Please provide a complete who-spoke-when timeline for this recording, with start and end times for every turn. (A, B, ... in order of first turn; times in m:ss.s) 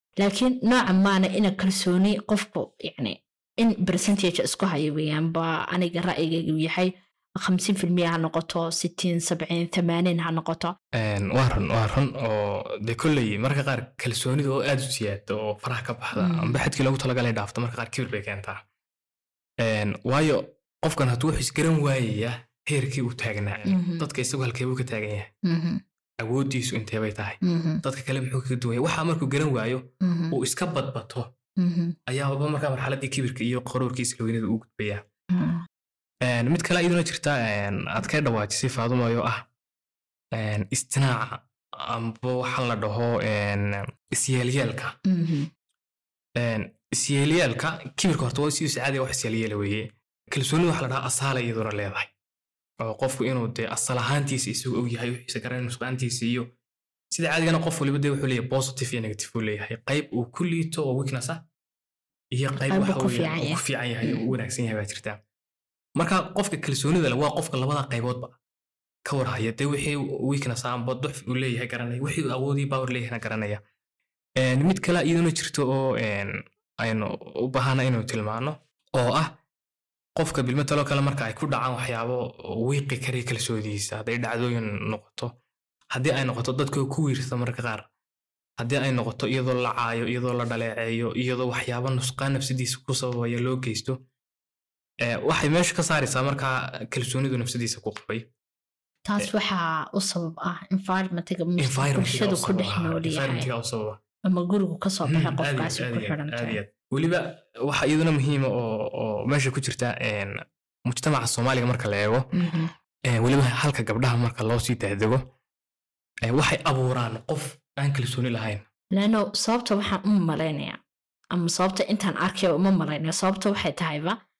0:00.2-0:10.7 A
0:11.0-0:18.6 B
0:16.2-0:16.6 A
0:19.6-0:25.3 B
0:23.6-0:24.1 A
0:25.4-0:25.8 A
0:26.2-0:31.3 B
0:27.4-0:27.8 A
0:30.0-0:30.4 A
0:31.6-0:32.0 A
0:32.1-0:35.0 B
0:35.3-0:35.6 A
0:36.2-0:39.4 B
0:40.3-0:44.9 B
0:45.0-0:45.5 A
0:46.4-0:52.1 B
0:52.8-0:56.5 B
0:57.1-1:01.4 B
1:02.3-1:05.2 B
1:02.6-1:04.3 A
1:06.0-1:08.4 B
1:09.0-1:13.6 B
1:14.4-1:19.3 B
1:20.2-1:25.3 B
1:25.9-1:27.8 B
1:28.6-1:34.0 B
1:35.0-1:38.2 B
1:39.0-1:43.5 A
1:41.6-1:44.0 B
1:44.3-1:46.6 A
1:45.1-1:52.3 B
1:52.3-1:52.7 A
1:53.1-1:55.2 B
1:56.3-1:58.6 B
1:59.0-2:00.8 A
2:01.3-2:04.2 A